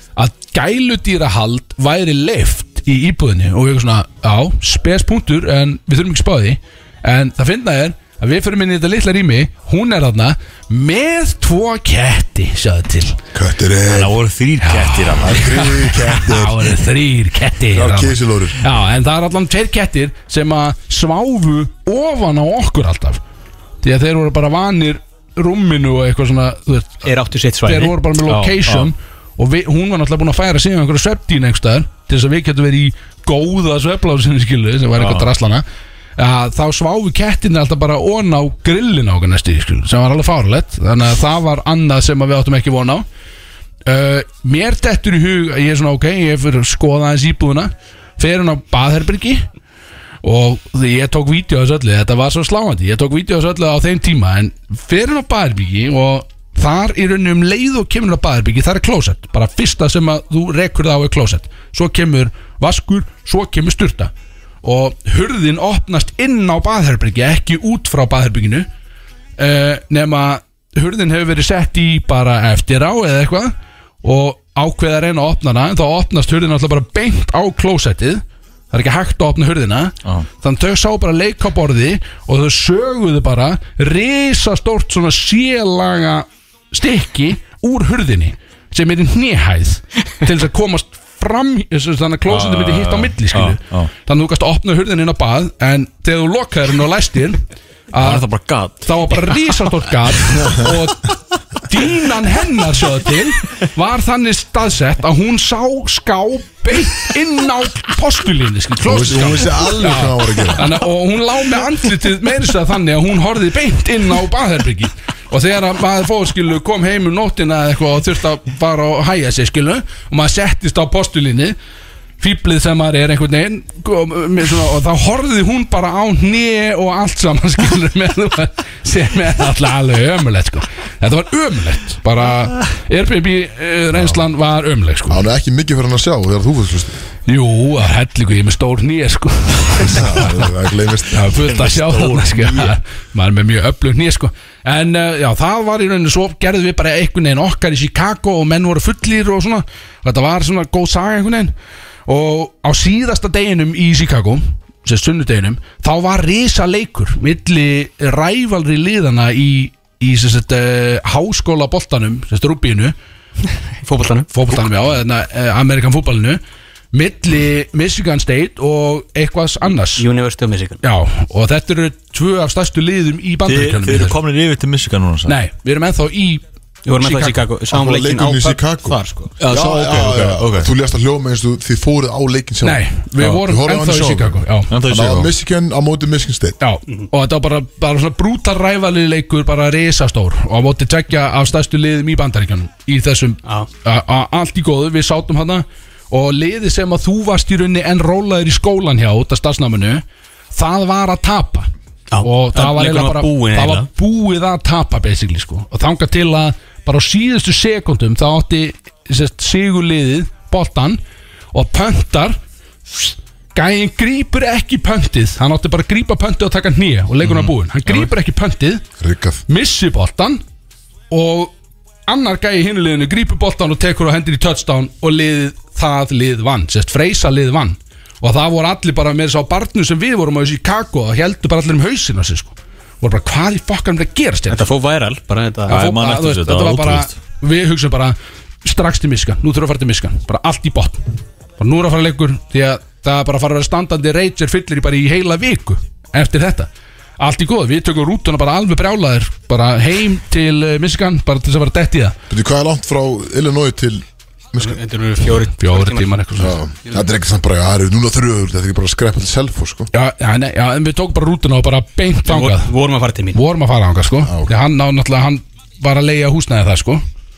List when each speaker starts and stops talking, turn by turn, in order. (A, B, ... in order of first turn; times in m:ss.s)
0:00.2-0:13.2 A
0:13.3-0:14.2 B
0:13.9-0:15.5 C
0:14.6-0:23.2 A
0:15.2-0:16.8 B
0:17.7-0:18.6 B
0:23.8-0:27.1 A
0:27.0-0:28.0 D
0:27.6-0:35.6 A
0:28.3-0:28.9 C
0:35.0-0:35.3 C
0:36.2-0:43.0 A
0:43.9-0:49.5 A
0:50.2-1:04.1 A
1:04.6-1:08.7 A
1:09.4-1:38.3 A
1:32.3-1:33.9 C
1:38.0-1:39.3 C
1:38.8-2:01.6 A
1:48.8-1:50.8 B
2:02.2-2:15.2 A
2:15.1-2:17.0 B
2:17.3-2:20.5 A
2:19.8-2:21.3 B
2:21.1-2:31.5 A
2:21.4-2:22.8 C
2:32.1-2:43.0 A
2:43.8-2:44.6 D
2:44.3-2:46.4 A
2:46.9-2:50.1 A
2:50.0-2:50.8 D
2:50.8-2:54.2 A
2:53.5-2:55.4 C
2:55.3-2:56.4 A
2:56.9-2:59.3 D
2:57.0-2:57.5 A
2:57.7-3:06.6 B
2:59.4-3:00.7 C
3:02.6-3:04.7 A
3:04.7-3:05.3 C
3:06.6-3:20.0 A
3:20.5-3:21.7 A
3:22.1-3:23.9 D
3:22.2-3:31.0 A
3:31.5-3:32.4 A
3:32.9-3:38.8 A
3:37.2-3:38.1 C
3:39.0-3:39.4 B
3:39.5-3:40.4 A
3:41.1-3:41.5 A
3:42.1-3:54.6 A
3:54.5-3:55.8 D
3:55.7-3:57.1 C
3:55.7-4:01.1 A
4:01.6-4:12.2 A
4:12.3-4:14.8 B
4:14.6-4:16.1 D
4:15.6-4:16.6 A
4:16.4-4:19.9 B
4:19.9-4:22.7 A
4:22.3-4:23.4 D
4:23.3-4:27.0 A
4:24.2-4:24.6 B